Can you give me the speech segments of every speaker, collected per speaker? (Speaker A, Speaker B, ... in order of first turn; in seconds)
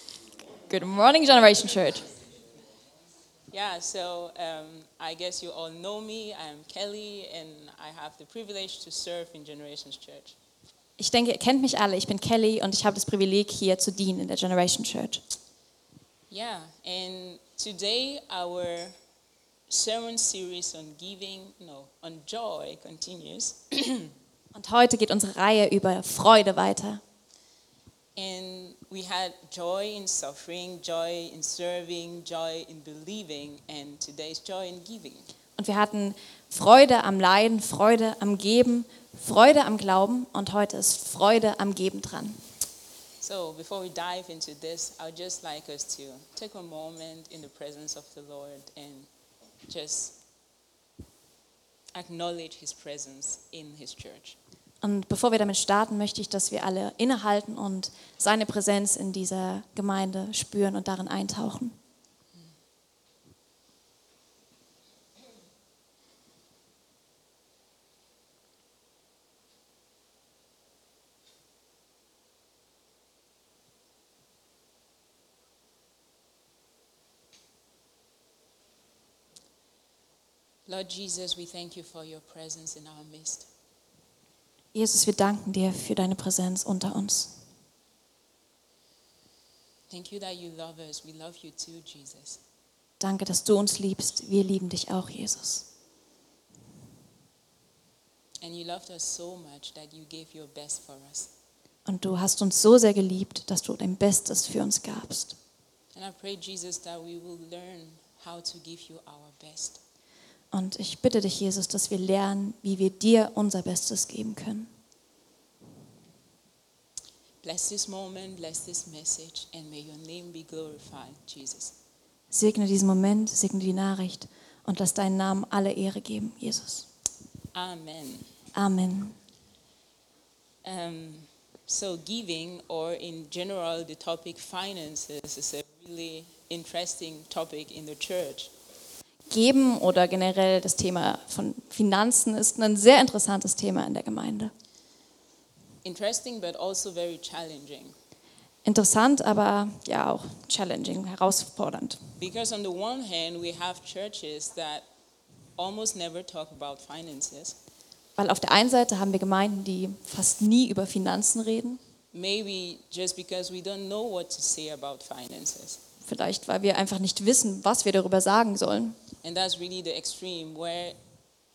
Speaker A: 0.5-2.1, 11.0-15.2, 24.5-27.0, 35.6-42.4, 54.8-61.8, 84.7-87.4, 93.0-95.7, 101.8-105.4, 110.5-114.7, 122.3-126.9, 128.5-129.2, 139.3-144.5, 148.6-152.1, 158.2-161.8, 166.0-169.0
Speaker B: 3.5-10.3, 16.3-19.0, 19.7-24.1, 28.1-35.3, 43.2-49.1, 49.7-50.2, 51.9-54.4, 80.7-83.5, 89.9-92.4, 98.4-101.3, 105.9-109.8, 117.4-121.8, 127.5-128.3, 130.6-138.5, 145.8-147.9, 152.2-154.9, 155.6-157.6, 162.1-165.8, 169.2-171.0